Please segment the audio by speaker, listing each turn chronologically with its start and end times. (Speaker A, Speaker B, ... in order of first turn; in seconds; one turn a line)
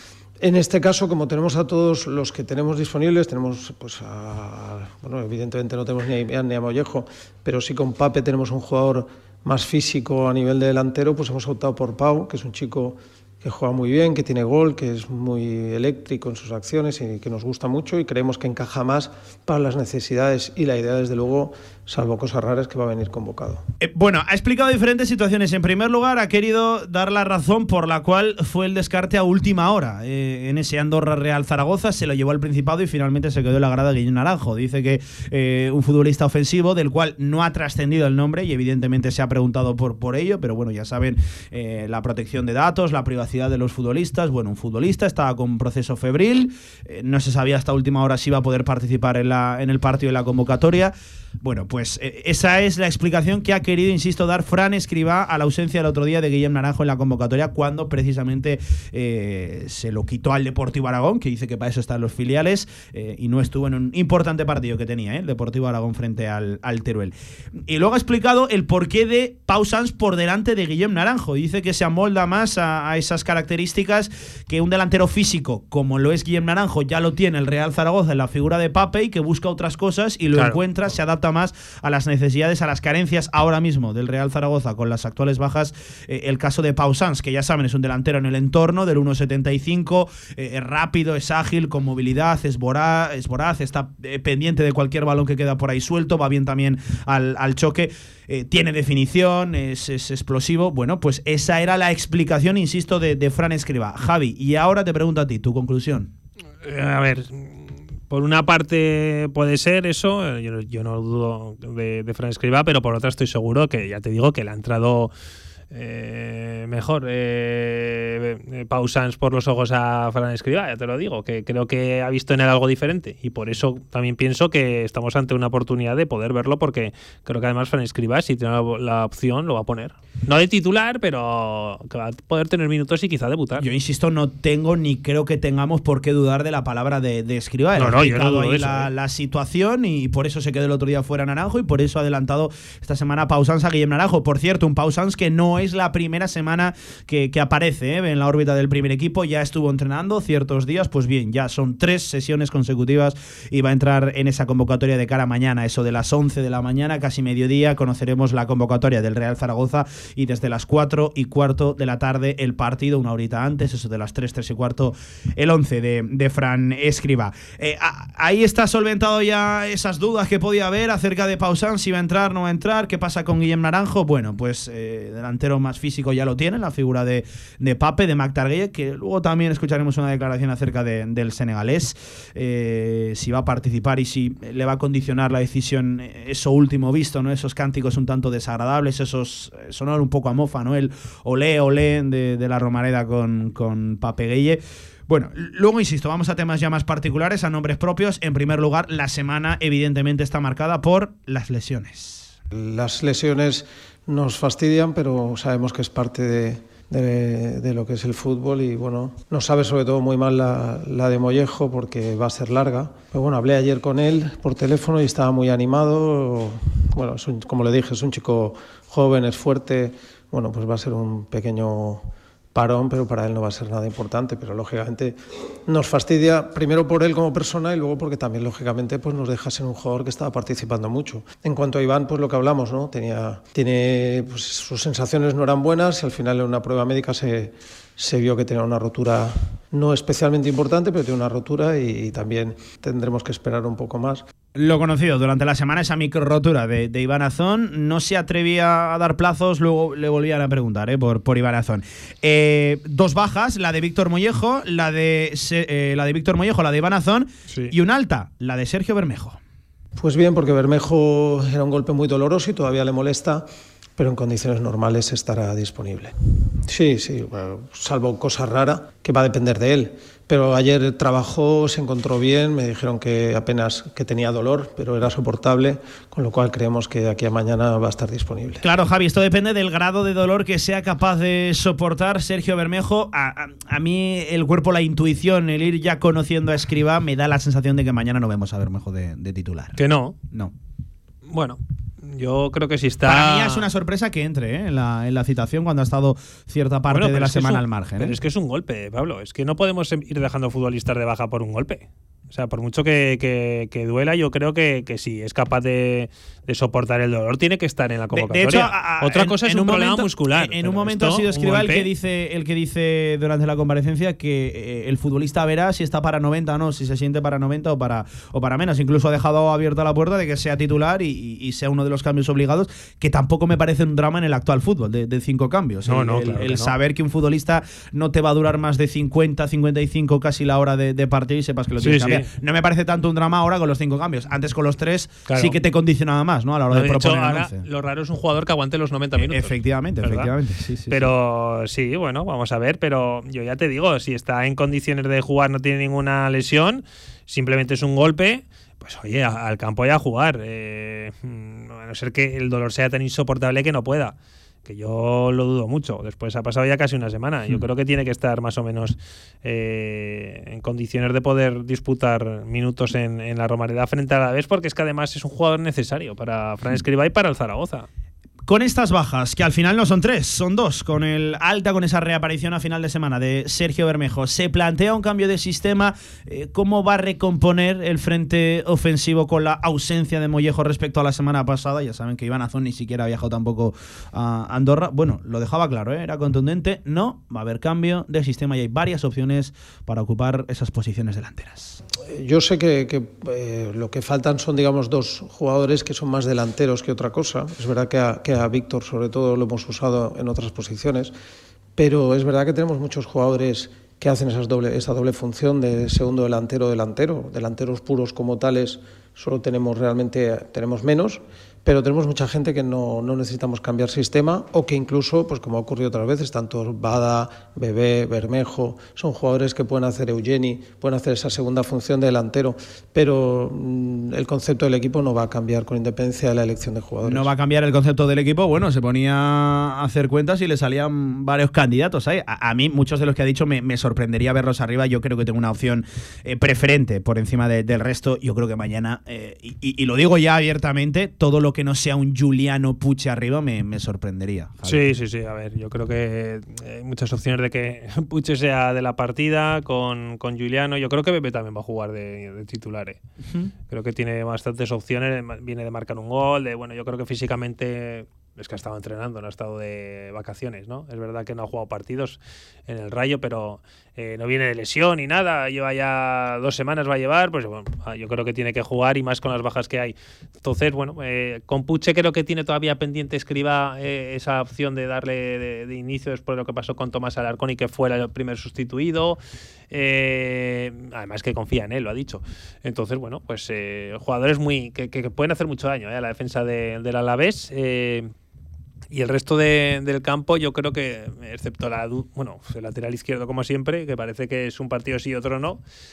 Speaker A: 0.4-23.6
Speaker B: 23.8-106.1
Speaker C: 80.3-80.6
Speaker C: 106.6-115.1
Speaker C: 115.7-133.7
Speaker B: 133.6-202.3
Speaker C: 137.8-138.9
Speaker A: 202.5-244.2
Speaker B: 244.5-259.4
Speaker C: 257.5-257.7
Speaker A: 260.0-263.5
Speaker A: 264.0-266.1
Speaker A: 266.6-278.6
Speaker B: 278.6-289.8
Speaker C: 289.8-290.2
Speaker C: 291.3-293.6
Speaker B: 293.0-298.1
Speaker C: 296.9-311.9
Speaker B: 308.1-337.6
Speaker C: 325.9-326.8
Speaker C: 331.8-332.3
Speaker C: 335.3-335.6
Speaker C: 336.7-340.3
Speaker B: 339.1-341.1
Speaker C: 340.9-367.9
Speaker B: 368.5-391.8
Speaker A: 392.1-401.1
Speaker A: 401.8-427.3
Speaker B: 427.0-444.9
Speaker C: 444.6-453.0
Speaker B: 453.2-453.5
Speaker C: 453.7-479.2
Speaker C: 479.7-488.1
Speaker C: 488.9-495.6